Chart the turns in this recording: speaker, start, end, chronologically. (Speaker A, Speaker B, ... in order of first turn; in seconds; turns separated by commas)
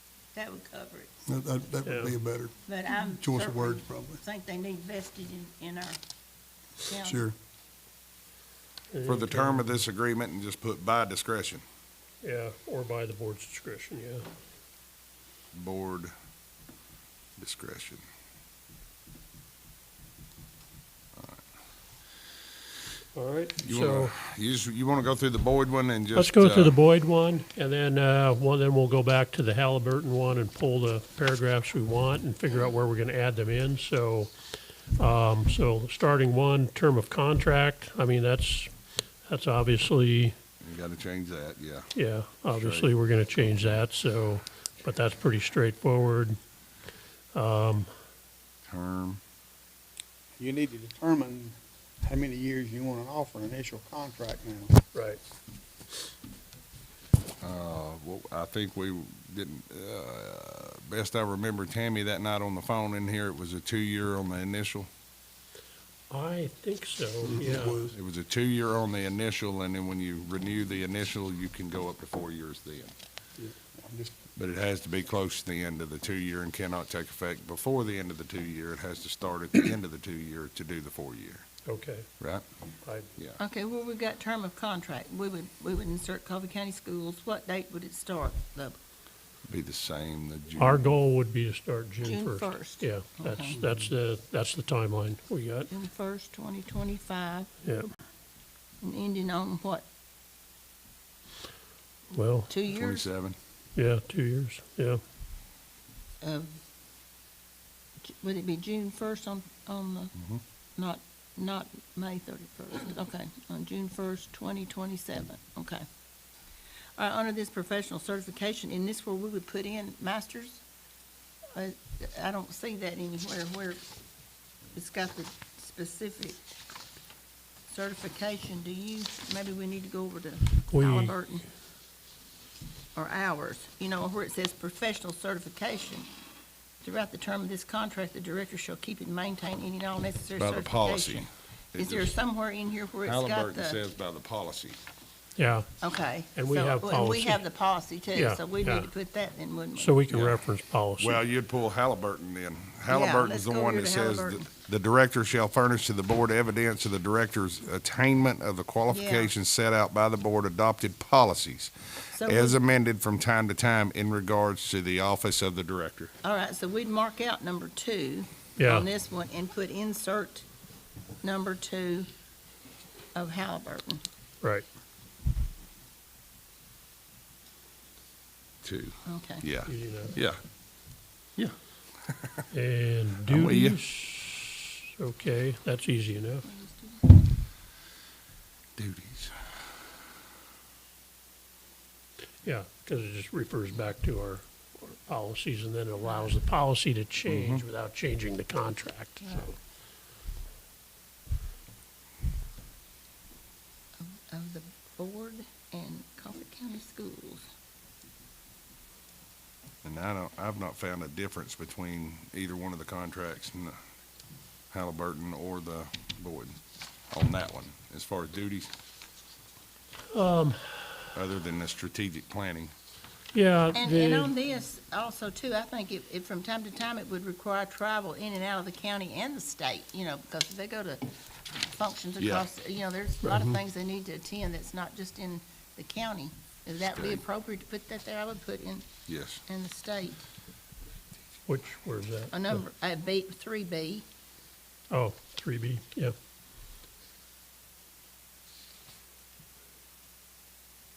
Speaker A: 0.3-1.1, Speaker B: 1.3-2.5, Speaker C: 1.5-1.9, Speaker D: 1.8-2.2, Speaker A: 2.7-6.0, Speaker B: 3.2-4.1, Speaker A: 6.8-7.3, Speaker B: 7.0-7.3, Speaker D: 8.9-9.7, Speaker E: 9.0-11.6, Speaker D: 12.2-14.2, Speaker E: 15.5-16.1, Speaker E: 17.4-18.0, Speaker D: 23.1-24.1, Speaker E: 23.6-26.8, Speaker D: 26.1-34.3, Speaker D: 35.0-38.7, Speaker D: 39.2-40.3, Speaker E: 40.6-41.9, Speaker D: 41.9-46.4, Speaker E: 42.5-42.9, Speaker D: 47.3-47.9, Speaker E: 48.7-49.2, Speaker C: 50.4-54.8, Speaker D: 54.9-55.2, Speaker E: 57.4-64.9, Speaker D: 66.1-67.9, Speaker C: 67.3-67.8, Speaker E: 67.8-72.9, Speaker C: 73.4-74.2, Speaker E: 74.4-81.5, Speaker D: 81.7-82.1, Speaker D: 82.8-83.1, Speaker A: 83.4-88.8, Speaker E: 89.5-90.8, Speaker D: 90.5-95.7, Speaker A: 92.0-93.6, Speaker A: 95.7-97.5, Speaker A: 98.8-99.8, Speaker D: 102.1-102.5, Speaker A: 102.5-103.1, Speaker E: 102.7-103.3, Speaker D: 103.8-105.0, Speaker A: 106.2-106.6, Speaker A: 108.0-110.1, Speaker A: 110.8-115.8, Speaker A: 117.0-120.6, Speaker A: 121.5-123.8, Speaker A: 124.7-126.4, Speaker A: 127.7-131.4, Speaker D: 130.7-131.2, Speaker A: 132.9-136.1, Speaker A: 136.8-143.8, Speaker E: 140.4-142.2, Speaker E: 143.0-144.8, Speaker D: 145.4-145.7, Speaker A: 145.8-150.0, Speaker D: 146.3-147.4, Speaker D: 148.1-148.9, Speaker D: 149.8-151.2, Speaker E: 150.1-150.4, Speaker E: 151.0-166.1, Speaker A: 152.9-154.5, Speaker A: 158.9-159.3, Speaker A: 162.1-162.6, Speaker A: 166.2-170.5, Speaker D: 168.6-168.9, Speaker A: 171.2-172.1, Speaker A: 173.1-174.0, Speaker D: 174.4-174.7, Speaker E: 178.6-180.4, Speaker A: 179.1-179.4, Speaker D: 179.6-180.2, Speaker E: 181.4-182.4, Speaker D: 182.5-186.4, Speaker E: 183.3-183.8, Speaker A: 186.4-187.2, Speaker E: 188.8-189.3, Speaker D: 192.4-199.6, Speaker E: 197.2-197.6, Speaker A: 199.2-199.5, Speaker A: 204.0-207.4, Speaker E: 209.8-213.8, Speaker E: 214.7-216.6, Speaker E: 217.1-218.7, Speaker D: 220.1-221.0, Speaker E: 221.1-222.7, Speaker D: 223.3-224.3, Speaker A: 223.7-238.9, Speaker E: 232.2-232.5, Speaker E: 236.9-237.2, Speaker E: 239.1-239.4, Speaker A: 239.5-240.2, Speaker D: 241.5-242.6, Speaker A: 242.3-244.0, Speaker D: 244.9-246.1